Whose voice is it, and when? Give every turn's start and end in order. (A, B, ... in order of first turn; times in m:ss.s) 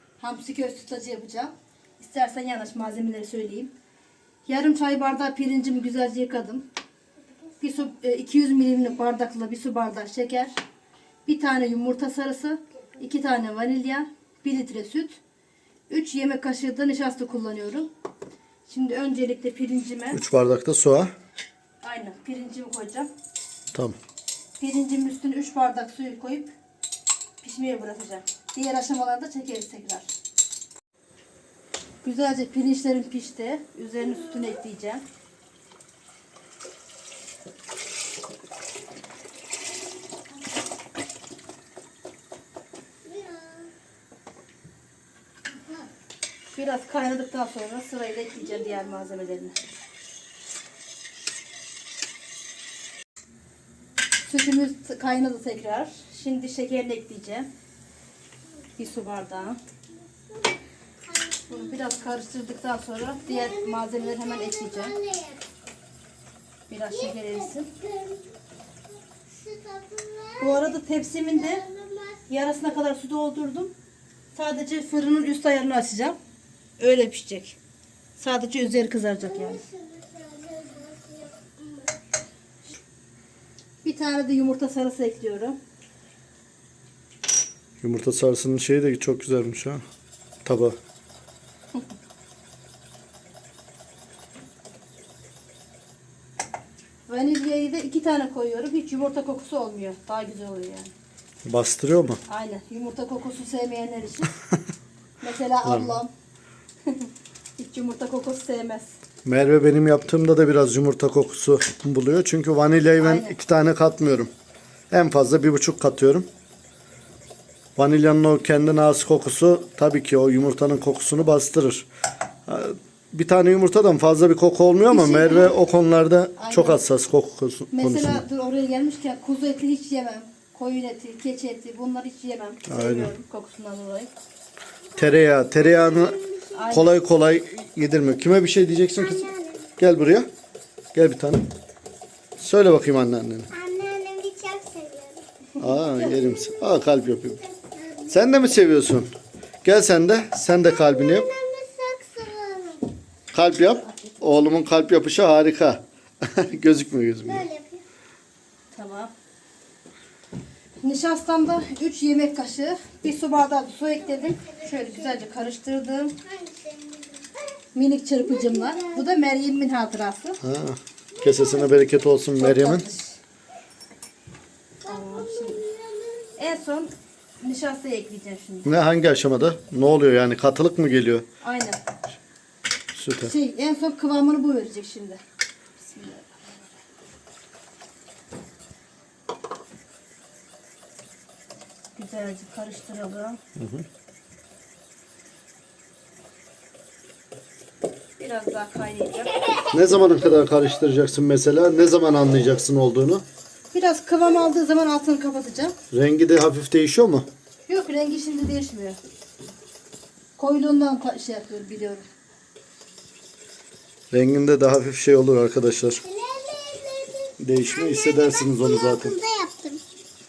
0:00.2-0:03.7 A
0:04.4-0:06.6 A
0:07.6-0:10.5 A
0:11.2-0:15.2 A
0:15.9-0:17.9 A
0:18.6-0:20.2 A
0:20.1-0:21.1 B
0:21.8-0:23.1 A
0:24.6-0:26.5 A
0:27.4-0:30.1 A
0:32.0-0:35.0 A
0:43.0-0:43.7 C
0:46.5-0:49.6 A
0:54.2-0:57.5 A
0:58.8-0:59.6 A
1:00.1-1:00.5 C
1:01.0-1:01.8 C
1:01.5-1:04.9 A
1:03.2-1:05.4 C
1:06.7-1:07.7 A
1:07.0-1:08.3 C
1:09.1-1:10.7 C
1:10.4-1:11.6 A
1:11.4-1:12.3 C
1:12.3-1:13.7 A
1:14.3-1:16.2 A
1:16.8-1:17.6 A
1:18.2-1:19.6 A
1:19.2-1:22.0 C
1:23.8-1:25.6 A
1:27.8-1:29.8 B
1:30.4-1:30.8 B
1:37.1-1:40.9 A
1:41.4-1:42.2 B
1:42.3-1:44.3 A
1:45.2-1:46.1 A
1:45.6-1:45.9 B
1:46.9-1:49.0 A
1:49.2-1:54.3 B
1:53.0-1:53.4 A
1:54.9-1:56.3 B
1:57.8-2:01.8 B
2:02.5-2:08.2 B
2:04.9-2:05.5 A
2:06.4-2:06.8 A
2:07.7-2:14.1 A
2:12.6-2:13.1 B
2:15.0-2:16.2 B
2:15.0-2:16.7 C
2:16.5-2:16.9 A
2:16.7-2:20.3 B
2:19.0-2:19.7 C
2:20.9-2:21.5 B
2:22.4-2:23.5 B
2:23.5-2:26.7 C
2:25.6-2:27.4 B
2:27.4-2:28.2 C
2:28.1-2:29.1 B
2:29.6-2:31.3 B
2:30.6-2:32.9 C
2:33.3-2:37.4 B
2:37.2-2:37.8 C
2:38.7-2:39.1 A
2:40.8-2:46.2 A
2:44.2-2:45.2 C
2:46.2-2:47.3 C
2:47.7-2:50.4 A
2:48.2-2:49.0 C
2:50.4-2:52.8 B
2:51.2-2:51.7 C
2:52.4-2:53.2 A
2:54.8-2:56.4 C
2:54.9-2:55.6 A
2:56.4-2:58.7 A
2:58.6-3:01.2 B
3:01.4-3:01.8 A
3:02.9-3:03.3 B
3:03.2-3:05.2 A
3:05.8-3:06.7 A
3:12.0-3:13.4 A
3:13.6-3:13.8 B
3:18.2-3:19.4 A
3:19.7-3:23.2 B
3:23.7-3:25.7 A
3:25.9-3:27.3 B
3:27.7-3:29.0 A
3:30.4-3:32.0 A
3:34.1-3:36.0 B
3:36.0-3:39.8 C
3:37.4-3:39.2 B